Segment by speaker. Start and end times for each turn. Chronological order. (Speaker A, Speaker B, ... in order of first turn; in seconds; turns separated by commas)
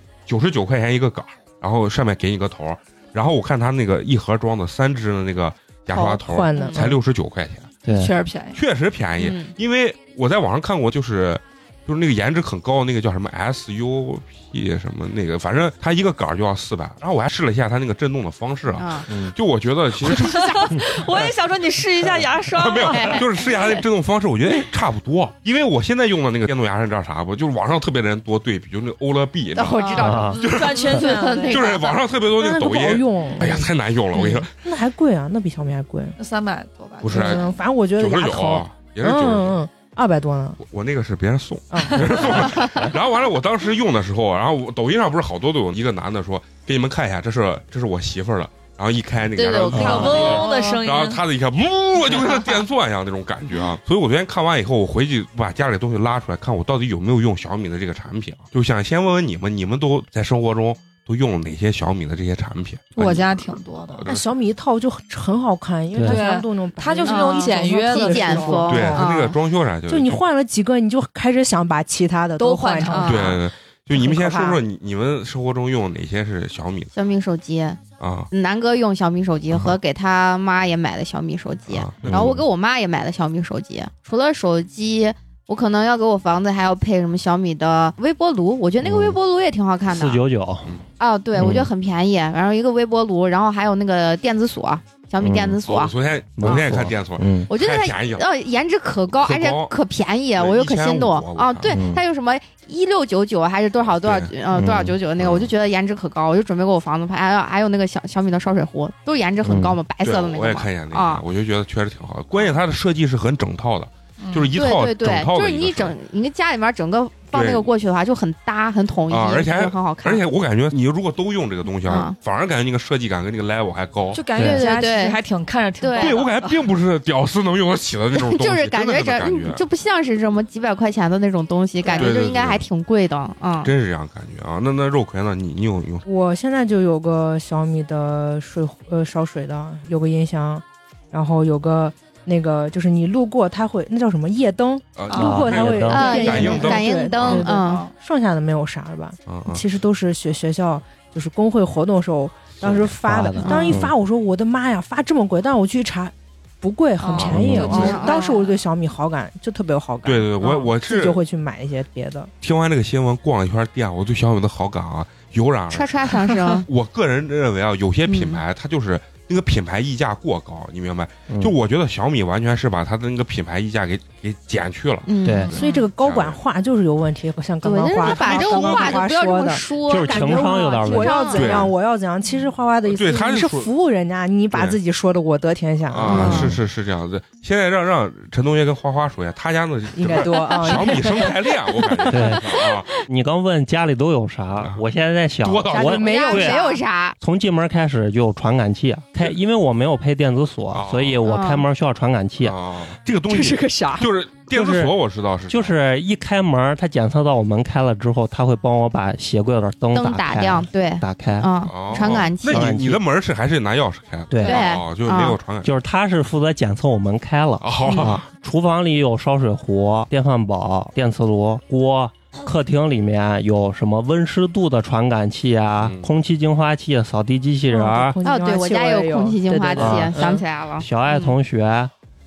Speaker A: 0.3-7.7, Speaker B: 6.0-6.8, Speaker C: 6.1-7.0, Speaker D: 7.8-8.1, Speaker E: 7.9-8.6, Speaker A: 8.5-20.9, Speaker B: 9.2-9.5, Speaker B: 18.8-19.1, Speaker E: 20.0-23.3, Speaker A: 22.5-34.5, Speaker B: 22.8-23.3, Speaker B: 29.5-32.0, Speaker E: 29.8-31.8, Speaker D: 30.0-30.4, Speaker C: 32.3-33.7, Speaker C: 34.5-36.1, Speaker E: 36.2-37.5, Speaker A: 37.0-39.6, Speaker C: 37.1-40.6, Speaker A: 40.6-63.4, Speaker C: 41.7-42.5, Speaker B: 49.4-50.7, Speaker E: 49.6-51.2, Speaker D: 49.7-50.2, Speaker E: 63.0-64.1, Speaker A: 64.0-64.3, Speaker C: 64.0-69.0, Speaker D: 65.9-66.2, Speaker E: 66.1-68.7, Speaker B: 67.0-69.4, Speaker A: 68.7-70.2, Speaker C: 69.9-73.4, Speaker E: 72.4-73.3, Speaker B: 72.9-73.4, Speaker A: 73.0-76.9, Speaker C: 73.9-74.6, Speaker B: 76.9-90.2, Speaker A: 78.0-78.3, Speaker A: 81.7-82.4, Speaker D: 82.0-82.3, Speaker D: 88.8-89.2, Speaker D: 89.9-90.7, Speaker B: 91.0-95.9, Speaker D: 91.3-91.7, Speaker D: 95.2-95.6, Speaker A: 95.6-98.2, Speaker D: 96.4-97.5, Speaker B: 97.5-111.2, Speaker A: 99.2-99.7, Speaker A: 100.3-101.8, Speaker D: 101.7-102.0, Speaker A: 103.8-104.3, Speaker D: 104.5-105.0, Speaker A: 105.2-105.5, Speaker D: 109.4-109.8, Speaker A: 110.0-116.0, Speaker E: 114.2-114.5, Speaker B: 114.5-120.2, Speaker A: 117.3-117.7, Speaker A: 119.1-124.2, Speaker B: 121.8-122.1, Speaker E: 124.1-126.6, Speaker D: 124.3-124.6, Speaker B: 124.4-125.2, Speaker B: 125.8-126.2, Speaker A: 126.0-129.6, Speaker B: 128.1-133.7, Speaker A: 131.9-132.7, Speaker A: 133.6-136.0, Speaker C: 136.1-162.3, Speaker A: 144.9-147.4, Speaker E: 145.1-145.4, Speaker D: 145.2-146.1, Speaker B: 145.9-147.9, Speaker E: 146.1-146.4, Speaker E: 147.2-147.9, Speaker A: 149.3-149.6, Speaker A: 152.6-152.9, Speaker D: 153.0-153.9, Speaker B: 153.4-153.8, Speaker E: 157.0-158.6, Speaker D: 157.2-157.9, Speaker B: 157.7-158.4, Speaker A: 160.0-161.2, Speaker A: 162.4-176.4, Speaker B: 165.7-166.7, Speaker B: 168.1-168.4, Speaker D: 171.3-171.5, Speaker B: 175.1-175.8, Speaker D: 175.2-175.5, Speaker C: 175.5-186.5, Speaker B: 177.6-181.7, Speaker A: 178.0-178.9, Speaker D: 178.3-179.0, Speaker D: 179.8-181.4, Speaker A: 181.3-181.7, Speaker A: 182.8-183.7, Speaker A: 184.5-184.8, Speaker A: 185.9-192.9, Speaker B: 186.0-186.5, Speaker D: 186.1-186.6, Speaker C: 189.9-191.3, Speaker D: 192.1-192.4, Speaker B: 192.6-192.9, Speaker D: 193.1-196.6, Speaker A: 194.6-194.8, Speaker A: 195.4-196.1, Speaker C: 195.7-196.8, Speaker B: 195.9-197.1, Speaker D: 197.2-202.6, Speaker A: 200.7-201.2, Speaker B: 201.2-201.7, Speaker A: 202.4-205.8, Speaker C: 203.3-204.1, Speaker D: 204.5-213.0, Speaker B: 209.9-212.8, Speaker A: 211.7-215.7, Speaker D: 214.3-214.6, Speaker B: 214.4-215.4, Speaker D: 215.6-228.2, Speaker A: 217.6-218.2, Speaker B: 217.8-218.1, Speaker A: 225.8-226.1, Speaker C: 227.7-230.4, Speaker B: 228.2-231.3, Speaker D: 229.7-230.2, Speaker D: 230.8-231.9